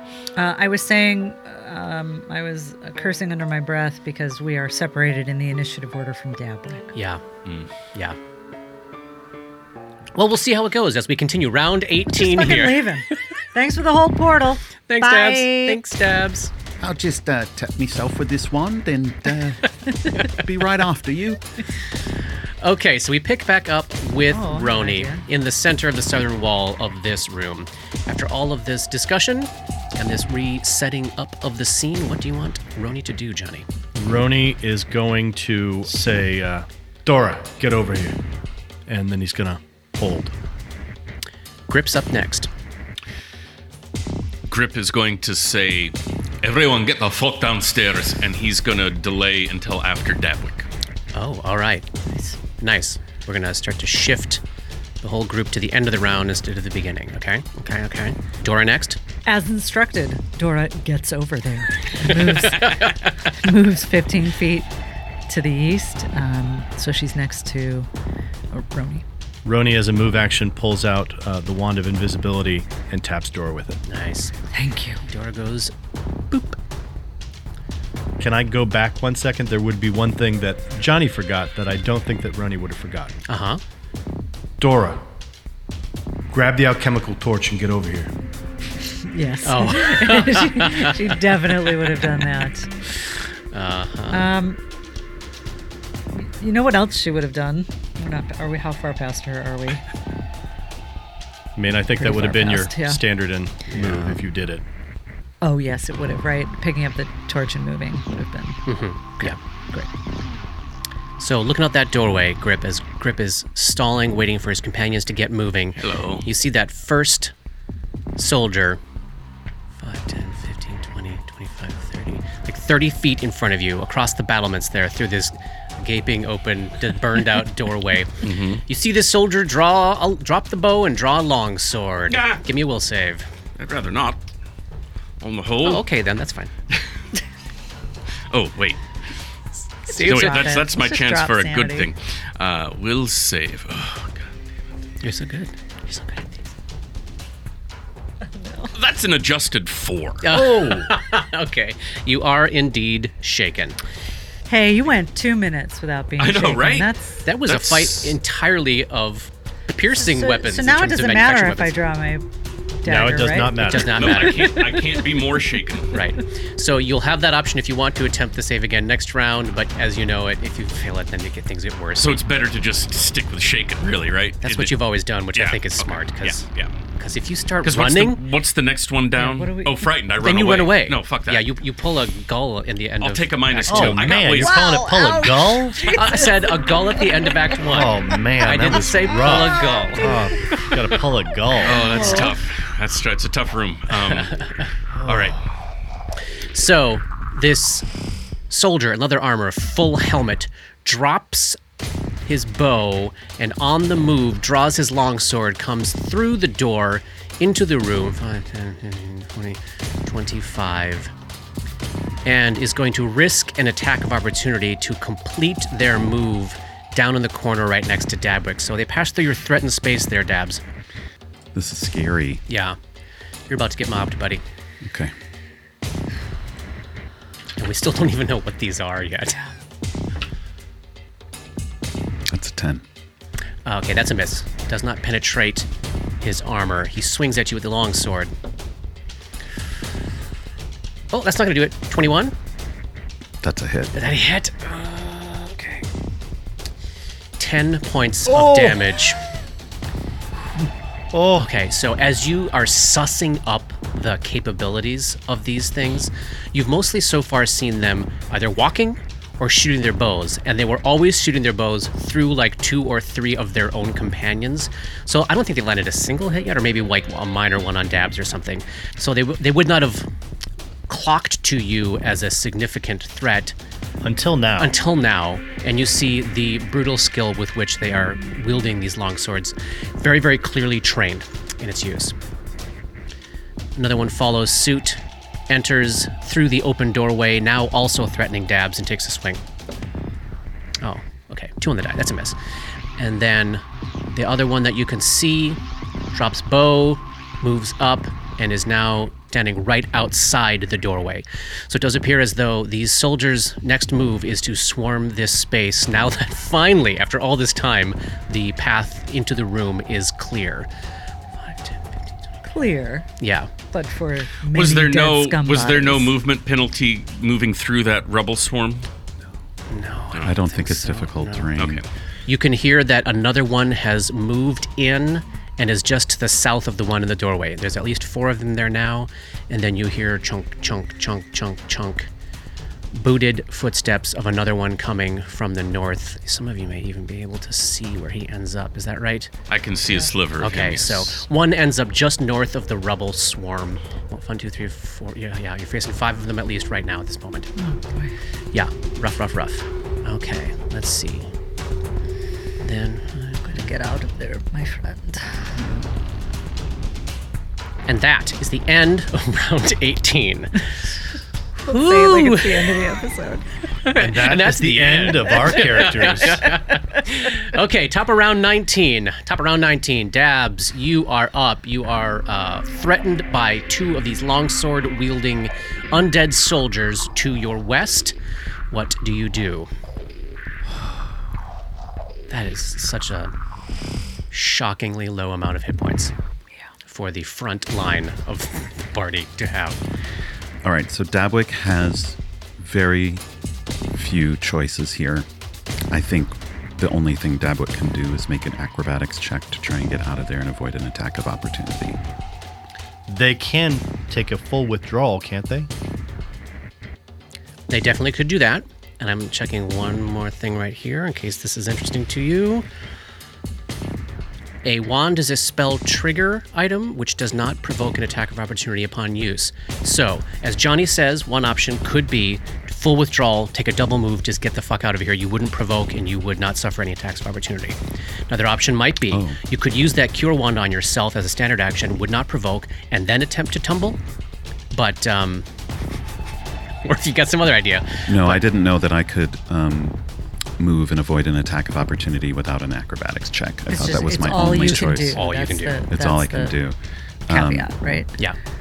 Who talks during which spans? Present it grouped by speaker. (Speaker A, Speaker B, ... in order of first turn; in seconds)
Speaker A: 0.3-6.9, 12.1-15.8, 24.3-25.2, 52.0-52.4, 59.2-64.7, 65.3-67.9, 68.5-69.0, 74.5-75.0, 89.0-92.7, 94.1-94.6, 96.1-99.8, 102.0-103.0, 105.4-108.6, 109.2-109.9, 139.9-141.9, 148.3-148.7, 154.5-157.2, 159.9-162.2, 162.8-165.0, 179.2-179.9, 184.3-186.7, 191.8-192.3, 312.4-313.1, 313.7-316.1, 347.6-348.1, 353.5-355.7, 361.6-363.4, 443.7-446.6, 447.3-448.1
Speaker B: 6.9-7.2, 10.1-12.9, 14.9-16.5, 22.6-33.7, 41.7-42.5, 51.1-51.9, 52.6-54.4, 55.0-59.0, 62.1-63.0, 73.9-74.3, 75.0-75.7, 76.3-76.6, 83.3-83.6, 89.4-91.1, 93.5-94.3, 103.7-104.2, 108.7-109.4, 111.2-117.3, 118.2-118.8, 119.8-133.3, 135.6-136.5, 139.9-140.6, 145.0-146.4, 150.2-153.8, 157.2-161.7, 163.6-164.7, 165.9-172.2, 174.4-176.4, 177.0-178.2, 180.2-184.2, 185.9-190.1, 194.0-194.7, 196.5-197.8, 198.5-201.6, 202.2-211.1, 212.2-220.6, 222.5-222.8, 223.5-224.4, 227.6-229.4, 233.6-235.7, 236.2-238.3, 241.1-242.3, 243.9-245.8, 247.4-249.2, 251.3-270.1, 270.9-273.6, 274.6-282.1, 283.8-289.4, 290.8-292.4, 293.0-295.6, 296.1-310.7, 311.4-312.1, 313.2-313.5, 319.7-321.5, 322.2-332.1, 332.9-339.3, 340.4-347.5, 348.5-351.3, 352.6-353.7, 357.9-360.6, 361.6-362.7, 363.8-378.1, 378.7-379.7, 382.3-383.3, 384.3-386.1, 386.8-389.8, 407.7-412.6, 414.6-434.0, 434.7-435.5, 436.8-438.4, 444.5-445.8
Speaker C: 16.8-21.4, 221.5-222.4, 224.8-225.1, 232.3-232.8, 243.4-243.9, 320.2-321.8, 390.6-393.2, 393.9-395.3, 395.9-402.0, 429.1-429.4, 438.1-440.0, 440.6-445.2, 445.9-447.7
Speaker D: 33.9-38.1, 38.9-40.3, 69.4-73.8, 78.2-83.2, 84.6-85.0, 86.3-88.1, 101.5-104.6, 162.8-164.0, 183.7-186.0, 187.6-191.9, 194.9-195.3, 248.3-248.8, 251.1-251.5, 274.0-274.8, 363.9-366.5, 403.1-405.7
Speaker E: 44.5-50.7, 115.8-116.3, 128.2-128.6, 132.1-132.4, 133.6-134.2, 135.2-135.8, 138.3-138.8, 140.0-144.4, 148.7-150.4, 156.2-156.9, 157.4-158.2, 163.9-166.0, 172.0-174.8, 175.3-176.7, 177.6-181.5, 183.0-184.6, 191.6-194.4, 195.0-195.4, 314.5-318.9, 321.6-321.9, 339.5-341.2